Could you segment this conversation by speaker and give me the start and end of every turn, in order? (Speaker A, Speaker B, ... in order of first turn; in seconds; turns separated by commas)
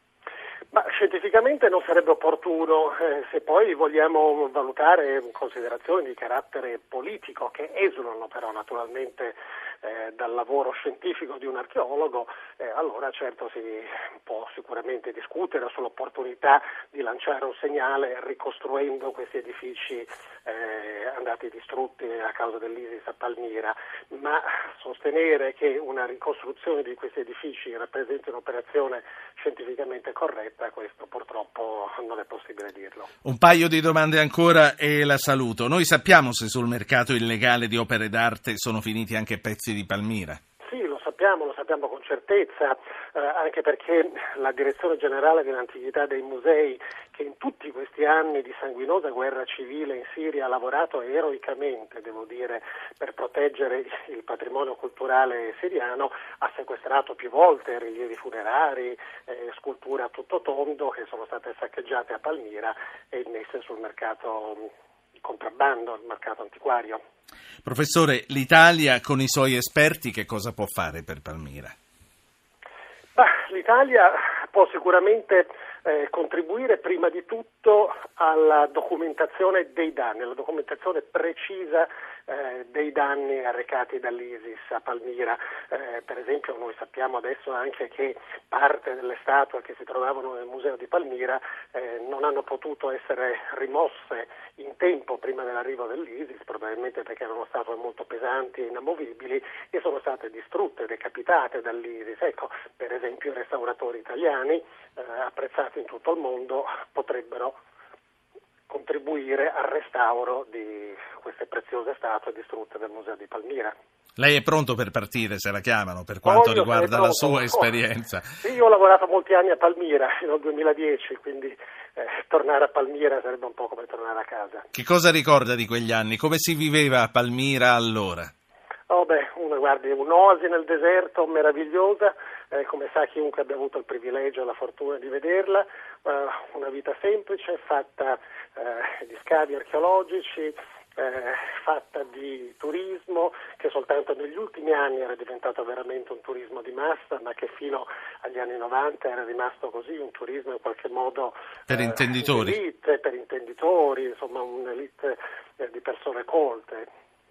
Speaker A: 0.7-33.1, Speaker B: 33.2-40.4, Speaker A: 40.6-64.7, Speaker A: 65.2-67.0, Speaker B: 67.7-71.8, Speaker A: 73.2-107.6, Speaker A: 108.7-113.7, Speaker B: 114.2-118.4, Speaker A: 116.2-117.8, Speaker A: 118.4-124.7, Speaker B: 124.7-128.3, Speaker A: 128.9-156.9, Speaker B: 151.7-152.6